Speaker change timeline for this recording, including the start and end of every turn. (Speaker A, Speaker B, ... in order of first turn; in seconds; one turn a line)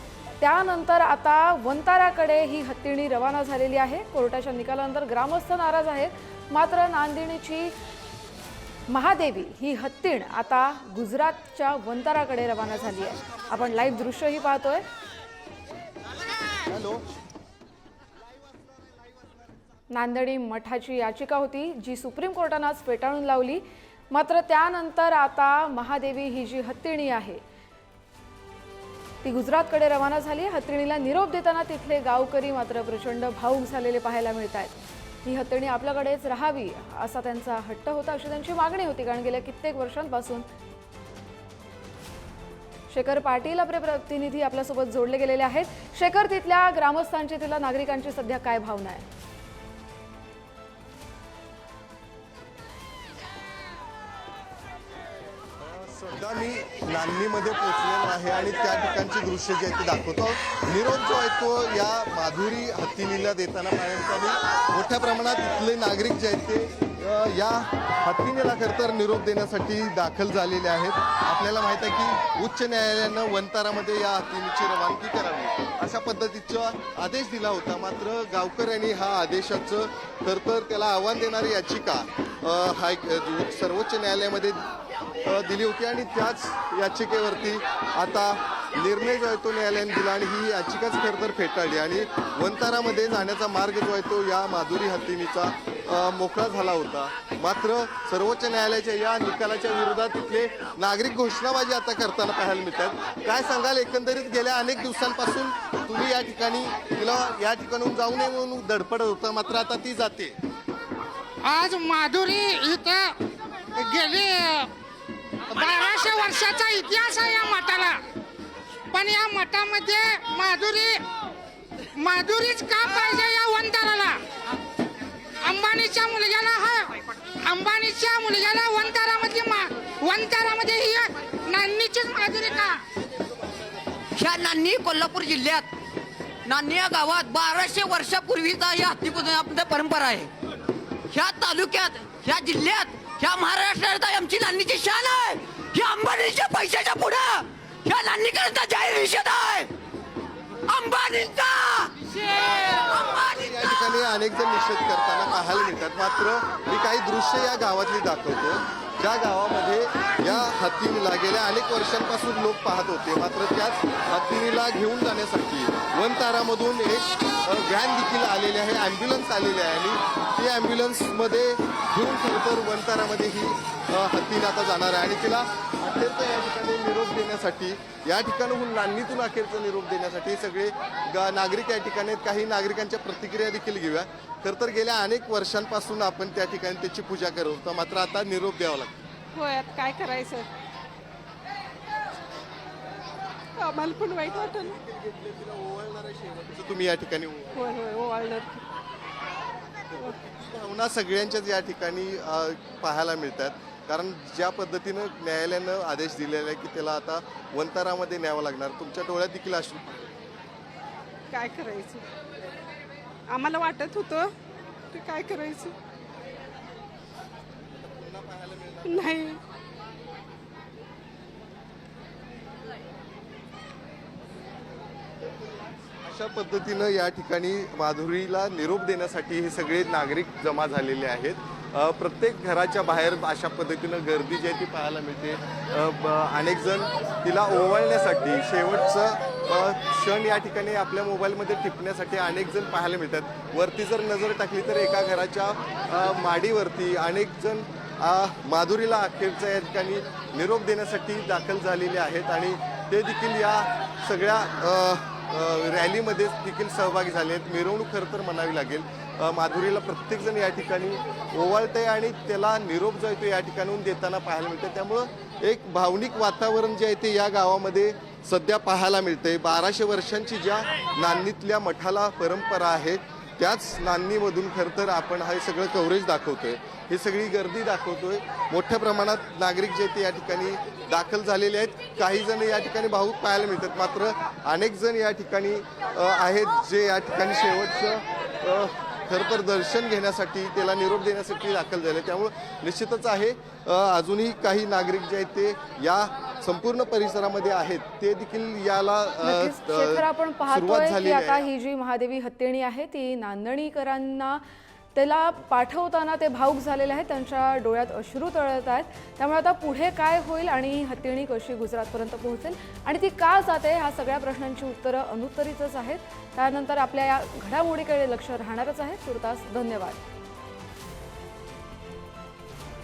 Speaker A: 0.4-7.7
Speaker A: 8.9-14.8
Speaker B: 16.6-17.0
Speaker A: 19.9-27.4
Speaker A: 29.2-40.5
Speaker A: 42.9-49.0
Speaker B: 55.6-84.6
Speaker B: 85.2-110.4
Speaker C: 111.4-113.2
Speaker C: 113.7-114.7
Speaker C: 115.5-118.0
Speaker C: 118.9-121.0
Speaker C: 122.0-124.2
Speaker C: 125.4-132.8
Speaker D: 134.2-135.7
Speaker D: 136.4-140.3
Speaker D: 141.1-149.7
Speaker D: 150.7-153.8
Speaker B: 153.2-189.0
Speaker E: 189.3-190.5
Speaker E: 193.6-194.8
Speaker B: 194.2-197.7
Speaker E: 197.6-198.6
Speaker B: 199.9-210.1
Speaker E: 211.3-212.1
Speaker E: 213.3-214.3
Speaker E: 214.9-215.7
Speaker B: 217.7-219.2
Speaker E: 218.8-219.4
Speaker B: 226.0-301.5
Speaker A: 299.2-304.4
Speaker A: 304.9-320.0